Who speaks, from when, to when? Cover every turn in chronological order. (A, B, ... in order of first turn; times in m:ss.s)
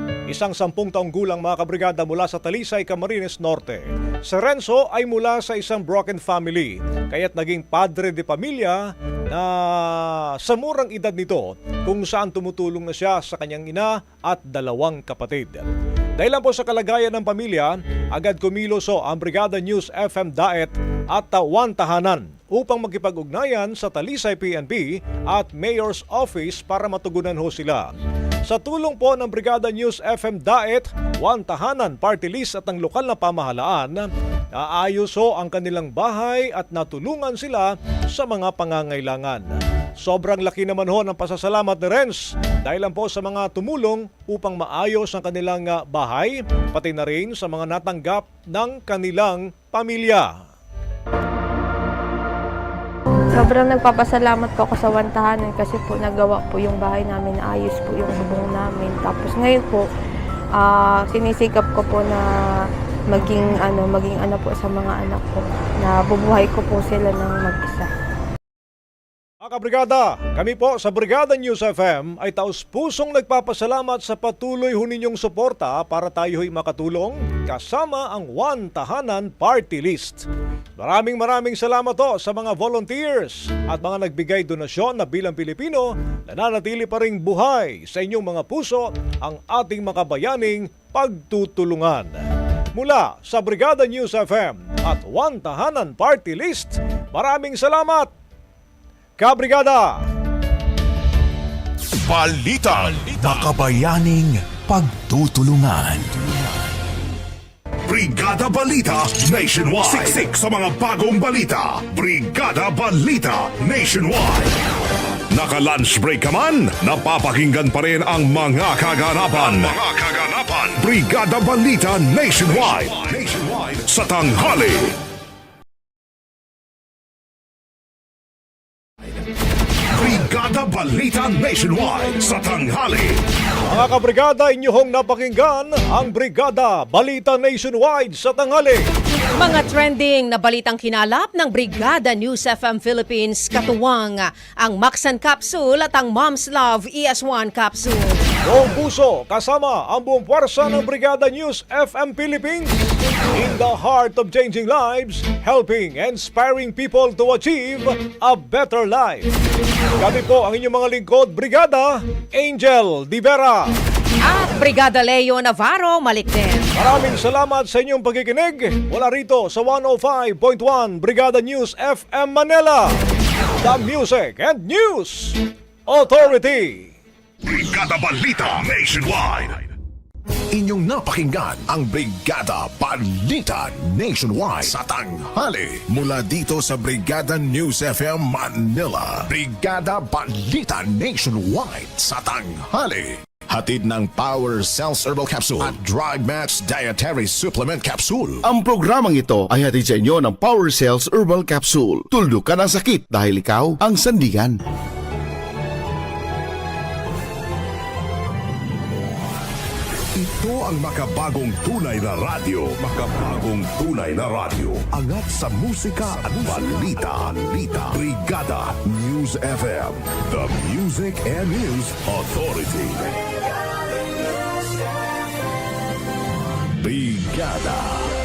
0:00.3-0:15.7 A
0:16.2-0:27.9 A
0:28.5-0:50.3 A
0:53.3-0:59.8 B
1:00.6-1:02.2 B
1:03.1-1:07.9 B
1:09.4-1:20.2 A
1:20.8-1:32.2 A
1:32.8-1:38.1 A
1:39.2-1:40.0 A
1:42.1-1:46.1 C
1:47.9-1:54.5 D
1:49.9-1:50.2 C
1:55.3-2:04.9 D
2:09.9-2:13.2 D
2:13.7-2:18.8 A
2:19.4-2:28.4 E
2:28.4-2:39.3 A
2:40.0-2:43.7 A
2:44.2-2:46.7 E
2:46.8-2:52.9 A
2:53.6-2:56.9 A
2:57.4-2:59.7 D
3:00.5-3:18.4 C
3:18.4-3:24.6 F
3:30.2-3:43.1 D
3:36.3-3:36.8 C
3:46.8-3:48.0 C